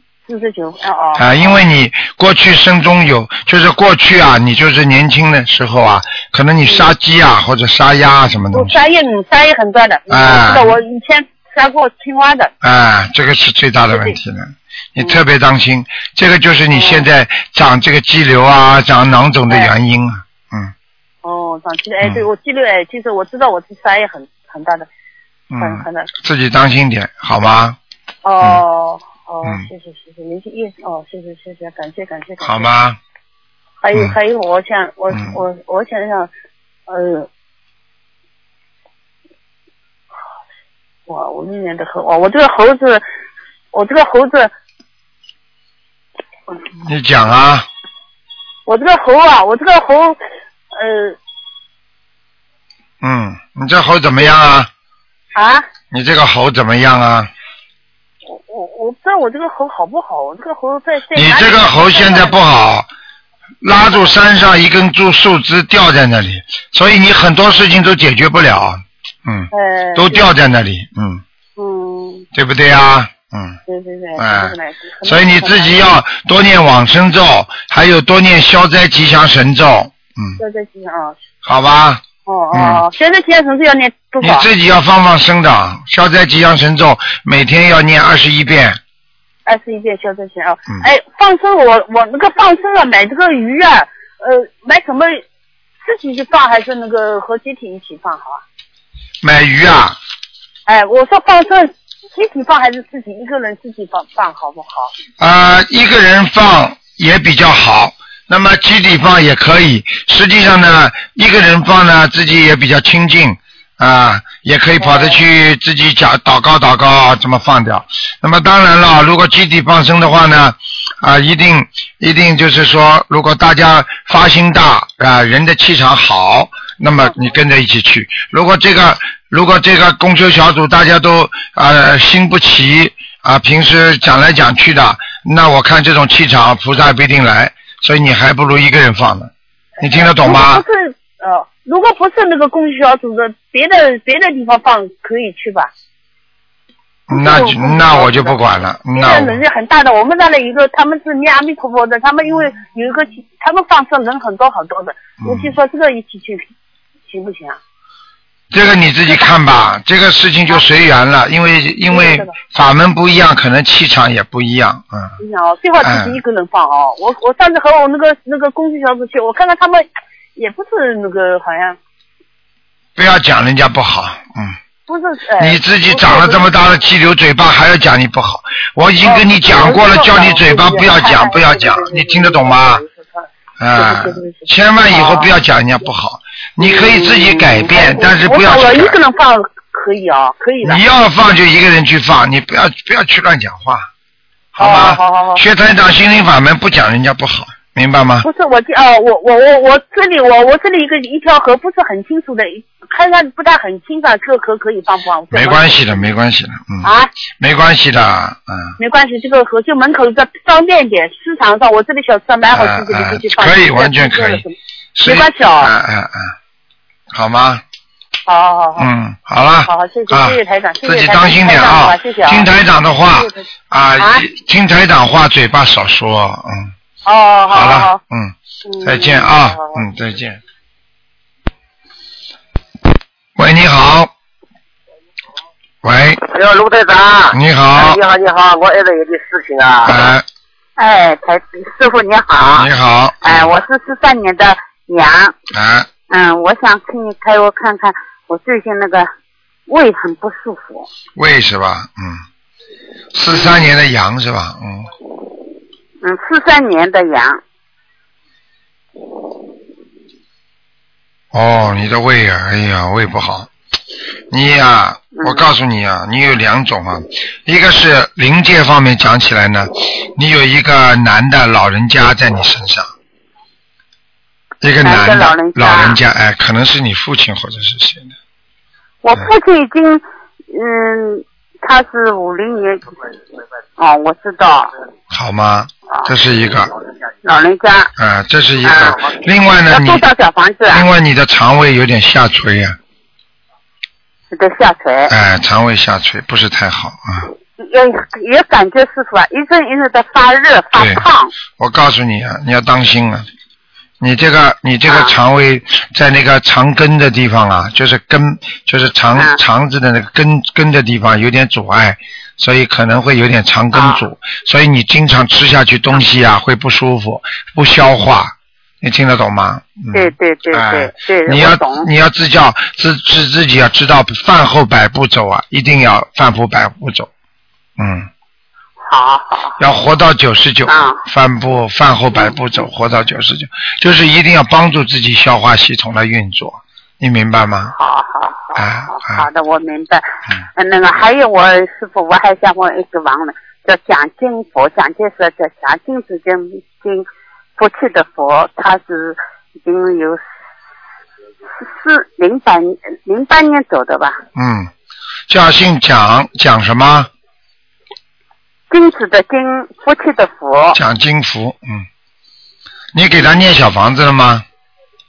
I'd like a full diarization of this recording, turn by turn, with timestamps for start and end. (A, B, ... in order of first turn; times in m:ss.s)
0:00.3-0:01.6 A
0:01.2-0:08.7 B
0:06.6-0:06.9 A
0:08.5-0:12.5 A
0:10.1-0:10.8 B
0:12.6-0:20.7 B
0:13.9-0:14.2 A
0:16.7-0:17.0 A
0:21.2-0:24.9 A
0:25.5-0:27.8 B
0:25.6-0:26.1 A
0:28.2-0:32.7 A
0:32.4-0:33.0 B
0:33.8-0:36.3 A
0:35.1-0:35.4 B
0:36.9-0:37.3 A
0:41.1-0:43.0 A
0:43.7-0:44.5 A
0:46.8-0:47.7 B
0:48.6-0:50.2 A
0:50.7-0:51.2 A
0:53.0-0:54.7 B
0:55.3-0:55.6 A
0:55.9-0:57.3 B
0:58.3-1:02.4 A
1:01.1-1:02.9 B
1:03.6-1:11.2 B
1:09.5-1:10.3 A
1:11.6-1:12.2 A
1:12.3-1:13.6 B
1:13.7-1:15.9 A
1:14.2-1:20.4 B
1:20.4-1:21.2 A
1:21.4-1:22.0 B
1:22.2-1:24.5 A
1:22.5-1:22.8 B
1:24.2-1:28.8 B
1:29.4-1:35.2 A
1:35.8-1:38.4 A
1:39.2-1:40.0 B
1:40.6-1:44.9 A
1:45.2-2:20.6 B
1:54.8-1:55.2 A
2:19.8-2:25.7 A
2:27.1-2:29.4 B
2:27.1-2:28.4 A
2:28.9-2:36.5 A
2:35.2-2:35.5 B
2:37.1-2:37.6 A
2:38.5-2:45.1 B
2:39.0-2:39.3 A
2:41.9-2:42.4 A
2:45.2-2:49.8 A
2:45.8-2:46.2 B
2:50.4-2:51.8 A
2:53.0-2:54.6 B
2:54.9-2:56.5 A
2:55.4-3:02.8 B
2:59.0-3:03.1 A
3:03.6-3:09.0 B
3:03.7-3:05.3 A
3:06.6-3:10.8 A
3:10.6-3:13.9 B
3:14.5-3:18.3 B
3:14.6-3:15.4 A
3:18.2-3:26.1 A
3:25.3-3:28.8 B
3:26.8-3:27.1 A
3:28.8-3:35.7 A
3:32.5-3:34.4 B
3:34.9-3:36.3 B
3:37.1-3:37.6 B
3:38.3-3:38.9 A
3:38.8-3:46.7 B
3:39.6-3:42.5 A
3:43.1-3:43.4 A
3:44.0-3:44.2 A
3:47.0-3:48.0 A
3:47.5-3:50.4 B
3:48.7-3:49.8 A
3:53.4-3:54.1 B
3:55.8-3:56.2 B
3:56.5-3:57.1 C
3:57.3-3:58.0 B
3:58.1-3:59.6 C
3:59.8-4:00.2 B
4:00.8-4:02.7 D
4:02.4-4:03.6 B
4:03.2-4:05.3 D
4:05.5-4:05.9 B
4:06.1-4:09.1 D
4:09.7-4:10.9 D
4:11.2-4:12.2 B
4:13.1-4:14.9 B
4:16.0-4:17.4 D
4:21.3-4:23.5 B
4:24.3-4:32.9 B
4:25.2-4:25.4 D
4:34.6-4:38.1 B
4:34.8-4:36.0 D
4:39.0-4:43.0 D
4:43.8-4:44.7 D
4:45.1-4:46.7 B
4:47.2-4:47.9 D
4:48.0-4:50.1 B
4:49.7-4:50.8 D
4:50.7-4:52.8 B
4:54.3-4:55.1 D
4:55.1-4:57.3 B
4:57.6-5:01.3 D
5:00.7-5:01.0 B
5:01.6-5:03.3 B
5:04.0-5:27.1 B
5:04.9-5:05.1 D
5:19.9-5:21.9 D
5:27.8-5:28.1 B
5:28.8-5:29.6 D
5:29.6-5:37.7 B
5:30.6-5:31.0 D
5:37.7-5:40.0 D
5:38.5-5:39.3 B
5:40.6-5:50.2 D
5:51.6-5:54.2 D
5:54.3-5:54.7 B
5:55.3-5:57.1 B
5:58.7-6:00.8 D
6:00.7-6:01.8 B
6:02.9-6:04.4 B